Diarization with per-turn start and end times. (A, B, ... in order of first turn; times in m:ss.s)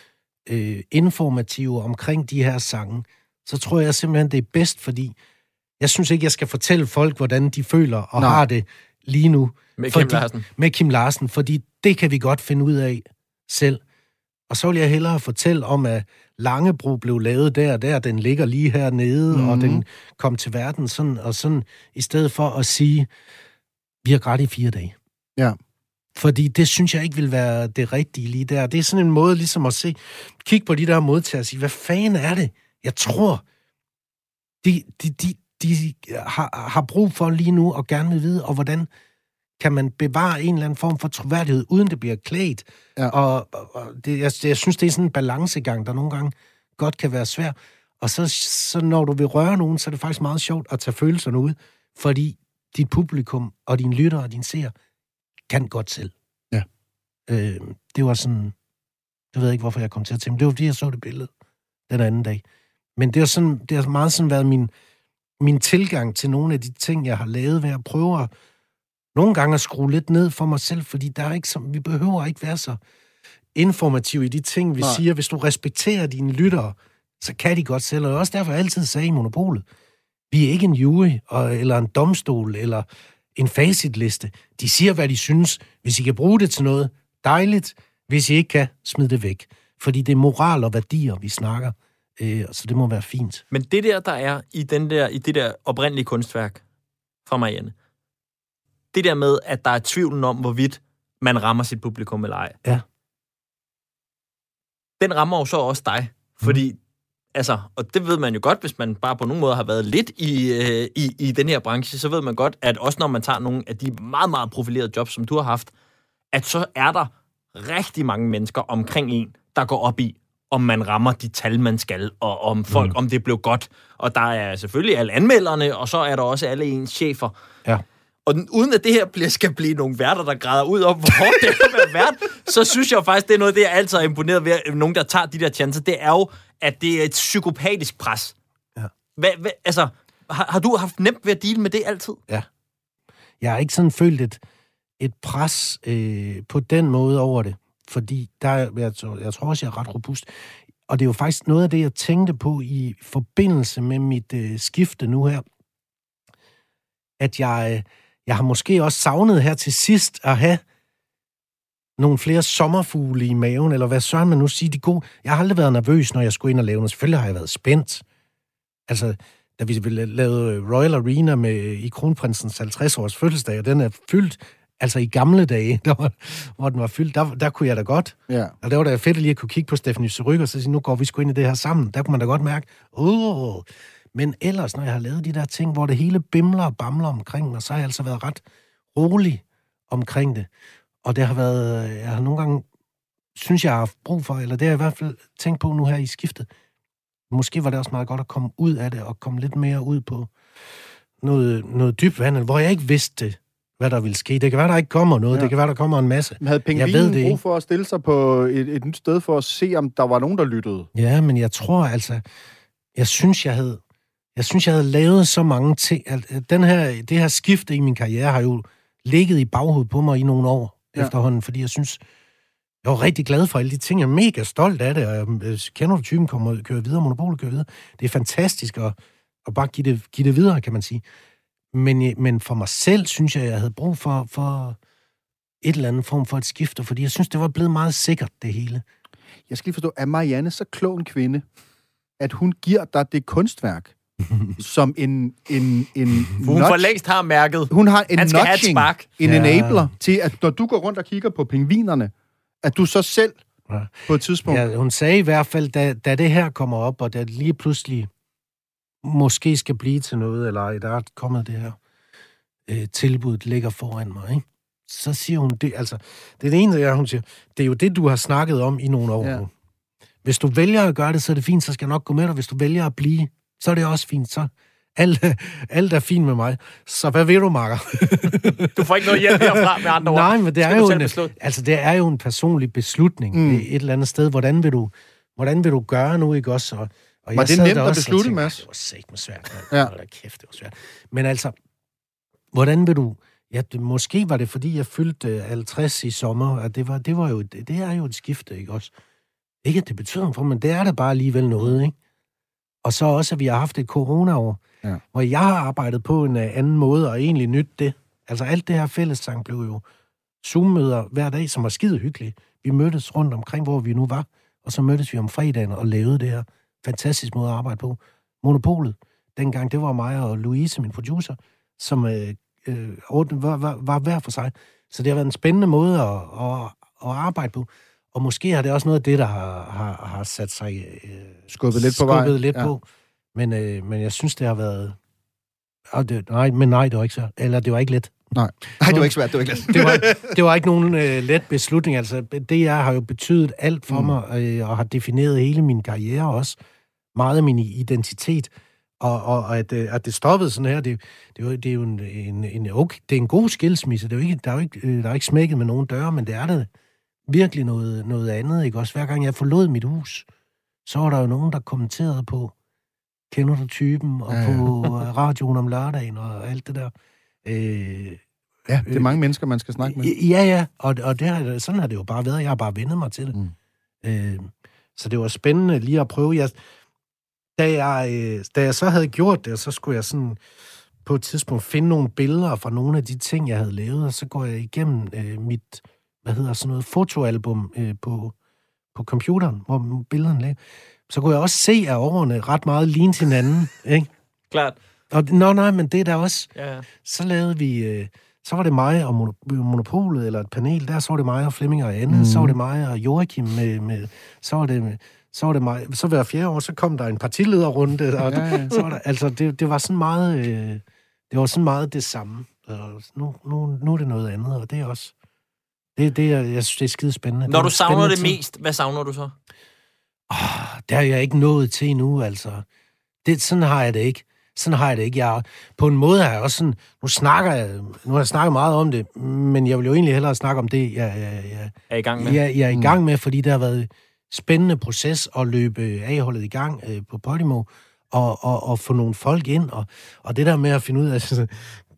0:00.5-0:05.1 A
0:05.8-0:13.8 A
0:09.8-0:10.4 B
0:14.5-0:23.1 A
0:19.3-0:19.8 C
0:24.0-0:24.9 A
0:26.2-0:33.4 A
0:34.6-0:38.9 A
0:39.6-0:54.7 A
0:55.5-0:56.1 A
0:57.3-0:58.5 A
0:59.3-1:01.3 A
1:01.9-1:02.4 A
1:03.0-1:04.7 A
1:05.4-1:08.3 A
1:09.1-1:12.8 A
1:13.6-1:19.6 A
1:20.3-1:33.4 A
1:33.5-1:36.6 B
1:37.2-1:37.7 B
1:38.9-1:42.6 B
1:45.0-1:46.8 B
1:47.3-1:55.7 B
1:56.3-2:07.3 B
2:08.2-2:18.3 B
2:19.2-2:22.2 B
2:23.4-2:24.4 A
2:25.0-2:30.3 A
2:30.9-2:35.4 A
2:37.2-2:40.6 A
2:42.0-2:48.0 A
2:48.9-3:08.4 A
2:58.3-2:58.5 C
3:08.9-3:10.5 A
3:11.0-3:12.6 A
3:13.3-3:16.5 A
3:17.3-3:20.3 A
3:21.2-3:27.4 A
3:26.4-3:30.9 C
3:30.9-3:32.2 A
3:33.0-3:33.8 A
3:34.3-3:42.0 A
3:42.8-3:48.9 A
3:49.4-3:51.0 A
3:51.7-3:54.8 A
3:55.6-3:58.8 A
3:59.5-4:01.4 C
4:02.2-4:03.9 C
4:04.3-4:04.5 A
4:04.6-4:06.9 C
4:06.4-4:09.1 B
4:07.7-4:12.1 C
4:09.2-4:09.9 A
4:12.6-4:13.4 C
4:13.7-4:18.1 A
4:14.1-4:14.6 C
4:19.0-4:21.8 A
4:22.7-4:29.5 A
4:30.2-4:51.5 A
4:38.7-4:41.3 B
4:43.3-4:43.6 C
4:47.4-4:48.6 C
4:52.5-4:58.9 A
4:59.6-5:01.9 A
5:02.8-5:09.8 A
5:10.4-5:32.8 A
5:31.5-5:32.7 C
5:33.3-5:35.0 A
5:35.9-5:38.2 A
5:38.3-5:40.3 C
5:38.7-5:46.6 A
5:47.1-5:56.7 A
5:57.3-6:00.2 A
6:00.8-6:02.5 A
6:03.3-6:06.9 A
6:04.3-6:05.0 C
6:07.4-6:08.2 A
6:08.7-6:10.1 C
6:08.8-6:09.1 A
6:09.8-6:13.4 A
6:14.0-6:16.6 A
6:17.6-6:20.4 A
6:21.0-6:28.3 A
6:28.9-6:34.1 A
6:34.5-6:34.8 B
6:35.1-6:36.5 A
6:36.6-6:36.8 B
6:37.0-6:55.1 A
6:42.1-6:42.5 C
6:48.3-6:48.8 C
6:56.0-6:58.4 A
6:57.5-6:59.3 B
7:00.3-7:02.6 A
7:03.2-7:21.8 A
7:11.9-7:12.4 B
7:12.7-7:13.0 C